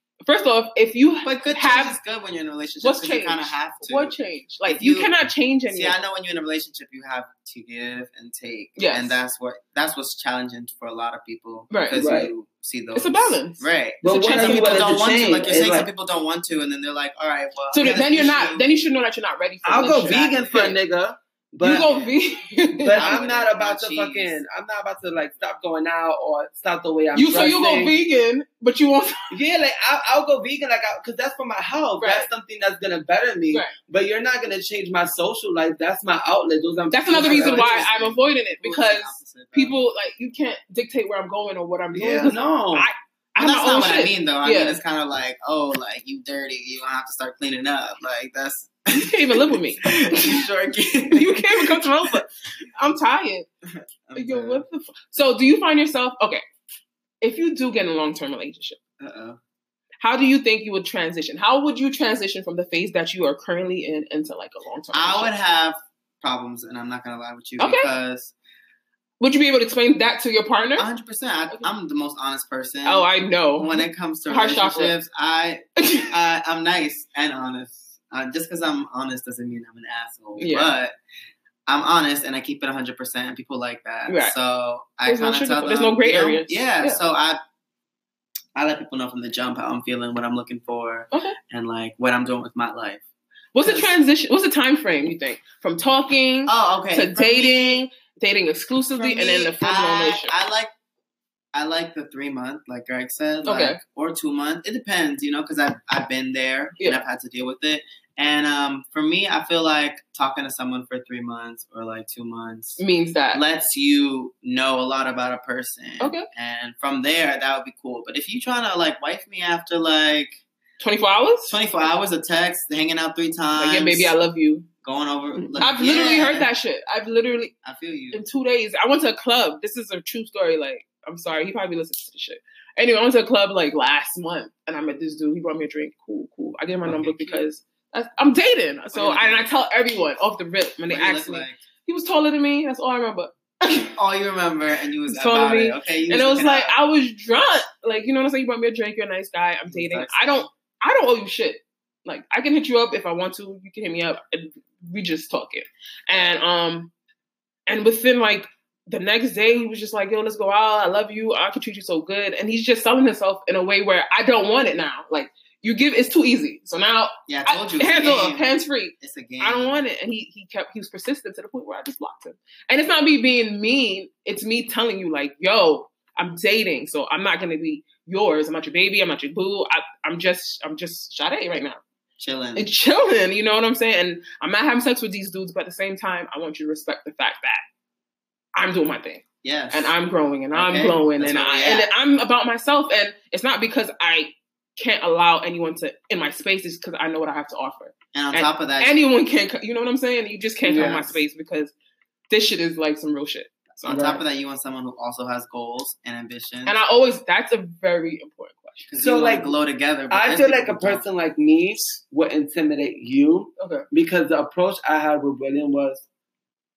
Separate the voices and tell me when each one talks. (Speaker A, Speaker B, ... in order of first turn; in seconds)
Speaker A: 0.2-2.0, 2.8-6.0, 8.8-9.2, 11.7-12.0, 12.9-14.9, 17.7-20.7, 21.6-23.2, 27.1-29.3, 32.0-32.3, 36.9-44.8, 48.9-50.4, 51.1-53.5, 54.1-56.4, 57.2-58.8, 60.0-65.3, 67.6-67.9, 69.2-70.9, 72.8-74.9, 75.8-76.1, 80.4-80.7, 84.1-84.3, 85.0-87.0, 93.5-100.3, 103.5-103.8, 112.8-113.4, 116.0-116.3, 120.8-121.5, 123.6-124.7, 125.6-127.5, 128.1-143.9, 145.1-156.9, 157.7-181.8, 182.6-187.6, 188.6-201.7, 202.3-204.2, 206.7-208.9, 213.6-213.8
Speaker B: 1.2-5.1, 5.7-18.7, 19.9-20.7, 21.8-22.1, 22.9-24.4, 37.1-39.8, 43.4-52.1, 53.6-54.6, 59.0-59.4, 64.9-68.3, 70.8-80.9, 81.7-87.4, 88.5-93.0, 93.6-93.9, 96.5-97.8, 99.0-100.7, 101.5-112.8, 113.3-120.4, 121.5-124.1, 124.8-126.5, 127.6-128.2, 136.8-137.4, 138.9-139.5, 140.9-141.6, 143.8-146.7, 149.7-150.5, 167.3-169.8, 182.2-182.7, 189.4-189.9, 190.5-191.9, 198.1-199.0, 200.7-201.2, 203.8-206.8, 208.9-211.1
Speaker C: 11.9-12.3, 14.0-15.9, 19.6-21.9, 22.8-27.9, 29.3-37.8, 41.9-42.9, 209.0-209.5, 210.1-216.0